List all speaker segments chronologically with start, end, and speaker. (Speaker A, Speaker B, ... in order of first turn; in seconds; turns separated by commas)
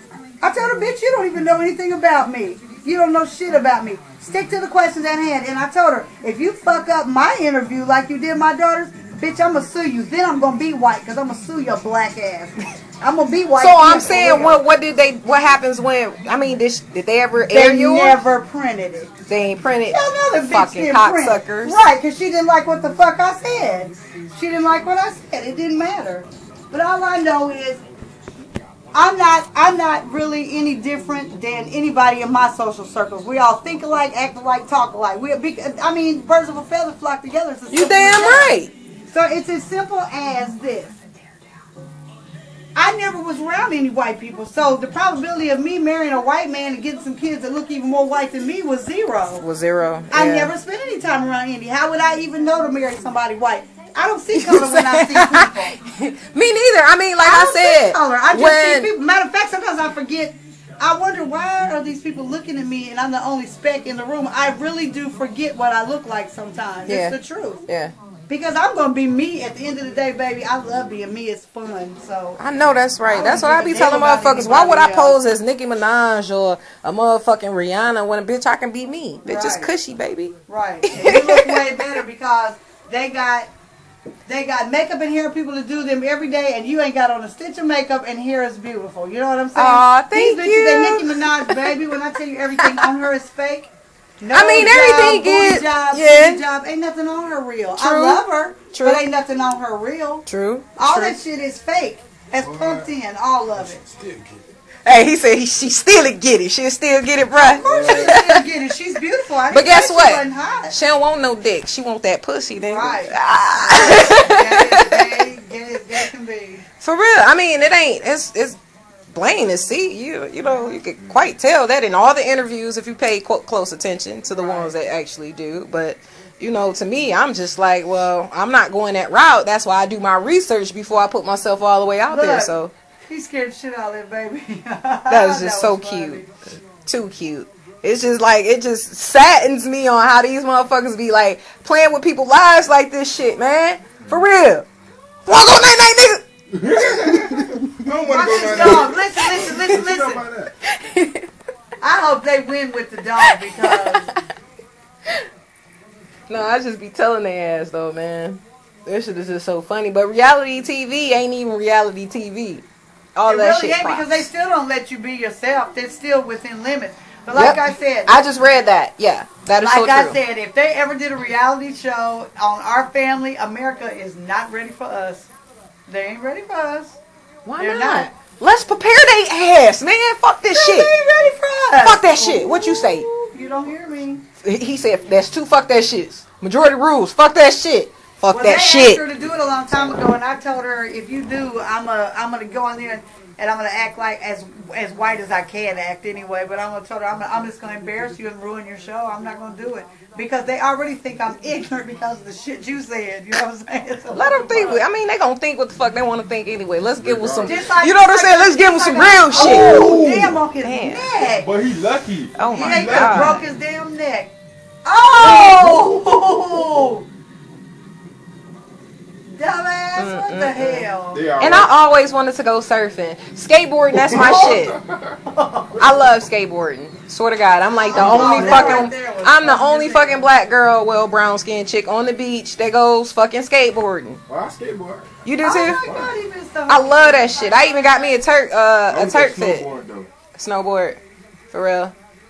Speaker A: 0.4-14.6, Speaker B: 13.6-18.2, Speaker A: 17.5-19.1, Speaker B: 19.3-21.8, Speaker A: 19.9-27.8, Speaker A: 28.9-41.0, Speaker B: 37.7-38.7, Speaker A: 42.8-49.4, Speaker B: 49.4-50.5, Speaker A: 50.1-55.8, Speaker B: 54.3-58.9, Speaker A: 57.2-67.6, Speaker B: 66.9-67.9, Speaker A: 68.3-72.4, Speaker B: 72.4-81.7, Speaker A: 73.0-75.2, Speaker A: 79.2-79.7, Speaker A: 80.5-83.5, Speaker A: 84.3-100.3, Speaker B: 89.5-91.6, Speaker B: 94.3-96.4, Speaker B: 97.8-99.0, Speaker B: 100.3-101.2, Speaker A: 100.8-103.8, Speaker C: 102.4-102.9, Speaker C: 103.6-104.5, Speaker B: 104.8-108.4, Speaker C: 107.5-108.2, Speaker A: 107.6-110.8, Speaker B: 109.5-115.1, Speaker A: 112.6-116.6, Speaker B: 116.8-118.6, Speaker B: 119.1-132.7, Speaker A: 120.4-120.8, Speaker A: 124.3-124.8, Speaker A: 132.1-132.6, Speaker A: 133.1-136.3, Speaker B: 135.1-144.7, Speaker B: 145.3-147.5, Speaker C: 146.5-150.5, Speaker A: 148.1-150.2, Speaker B: 149.3-149.6, Speaker B: 150.7-151.3, Speaker A: 151.8-154.1, Speaker B: 153.2-154.3, Speaker B: 156.3-162.6, Speaker B: 163.2-164.3, Speaker A: 163.3-168.3, Speaker B: 167.3-170.2, Speaker A: 169.6-175.3, Speaker A: 175.9-177.0, Speaker B: 177.5-180.9, Speaker A: 177.6-178.1, Speaker A: 180.5-184.2, Speaker B: 181.8-183.1, Speaker B: 184.4-189.1, Speaker A: 188.3-204.8, Speaker B: 204.1-210.0, Speaker C: 207.0-207.7, Speaker A: 207.4-211.5, Speaker C: 209.3-210.4, Speaker B: 210.6-211.1, Speaker C: 211.2-213.4, Speaker B: 212.4-213.4, Speaker A: 212.5-214.3, Speaker A: 214.8-217.1, Speaker B: 215.1-215.9, Speaker A: 219.3-221.3, Speaker B: 220.0-220.9, Speaker C: 221.1-221.7, Speaker B: 221.4-224.8, Speaker C: 224.0-225.2, Speaker A: 224.1-224.6, Speaker A: 225.3-226.0, Speaker B: 225.8-234.2, Speaker A: 227.7-230.3, Speaker C: 227.9-228.8, Speaker C: 234.3-235.1, Speaker B: 235.2-235.8, Speaker A: 235.4-238.2, Speaker C: 235.8-236.1, Speaker B: 236.7-239.7, Speaker C: 238.9-240.1, Speaker B: 240.3-241.0, Speaker B: 241.5-241.9